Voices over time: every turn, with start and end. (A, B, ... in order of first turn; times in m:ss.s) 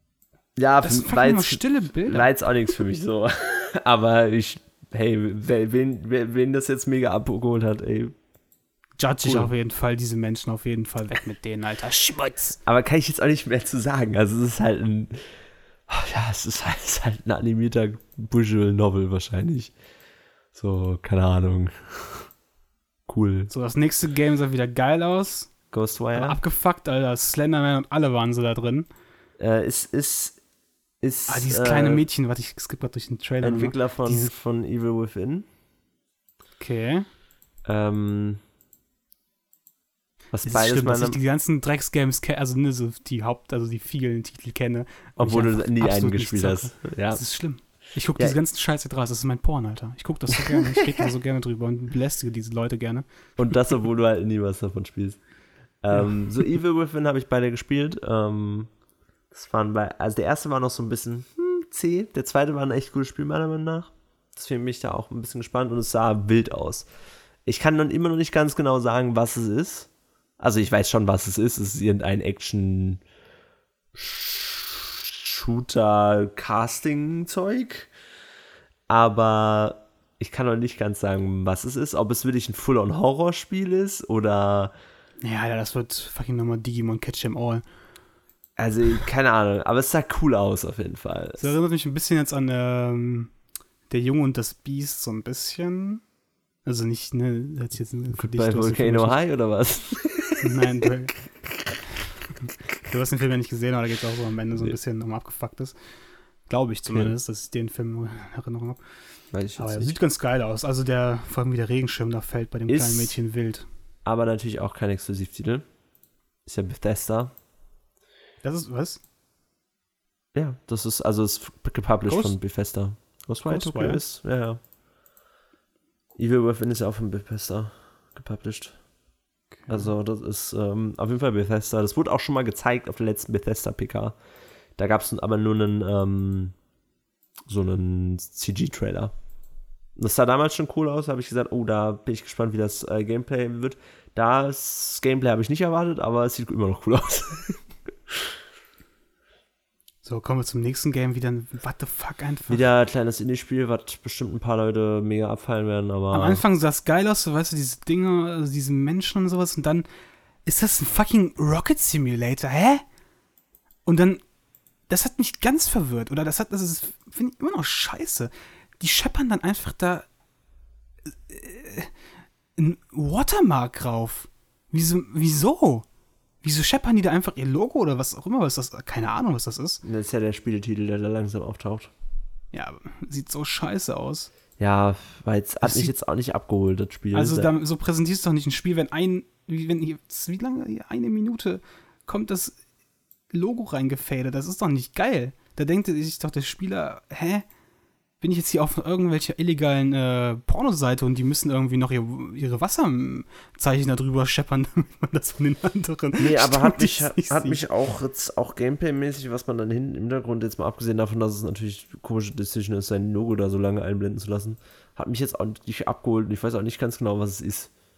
0:00.6-0:08.1 A
0:00.8-0:02.3 B
0:09.0-0:12.6 B
0:09.2-0:09.5 A
0:12.7-0:15.3 A
0:15.9-0:19.7 A
0:20.5-0:22.3 A
0:23.1-0:23.5 A
0:23.5-0:25.5 B
0:25.7-0:26.4 A
0:26.2-0:28.9 B
0:29.4-0:30.4 A
0:31.0-0:32.0 A
0:31.3-0:34.3 B
0:33.4-0:35.5 A
0:36.6-0:37.1 B
0:37.6-0:38.4 A
0:40.3-0:41.2 A
0:40.4-0:53.1 B
0:45.2-0:47.2 A
0:53.4-0:55.2 A
0:55.8-0:58.7 A
0:59.3-1:06.9 A
1:07.5-1:13.0 A
1:13.9-1:17.9 A
1:18.9-1:24.7 A
1:25.2-1:27.6 B
1:28.6-1:31.5 A
1:31.4-1:33.3 B
1:33.9-1:36.0 B
1:36.6-1:39.2 B
1:38.2-1:40.5 A
1:40.4-1:41.2 B
1:42.9-1:45.8 B
1:46.5-1:48.8 B
1:49.3-1:50.0 A
1:49.6-1:53.7 B
1:52.7-1:53.2 A
1:54.0-1:55.7 A
1:56.5-1:57.3 A
1:58.4-1:59.0 B
2:00.3-2:04.6 A
2:02.1-2:02.4 B
2:03.5-2:04.0 B
2:06.2-2:08.8 A
2:09.6-2:09.9 B
2:09.7-2:14.2 A
2:14.8-2:16.6 A
2:17.5-2:19.1 A
2:20.0-2:28.3 A
2:30.0-2:32.6 B
2:32.5-2:36.4 A
2:36.1-2:39.9 B
2:40.4-2:42.8 B
2:43.8-2:44.2 B
2:44.9-2:50.1 B
2:51.3-2:51.9 B
2:52.6-2:55.8 B
2:56.4-2:59.8 B
2:59.8-3:01.9 A
3:02.5-3:04.3 B
3:04.6-3:07.5 A
3:05.6-3:05.9 B
3:07.1-3:12.6 B
3:13.3-3:17.5 B
3:18.2-3:27.6 B
3:26.2-3:37.7 A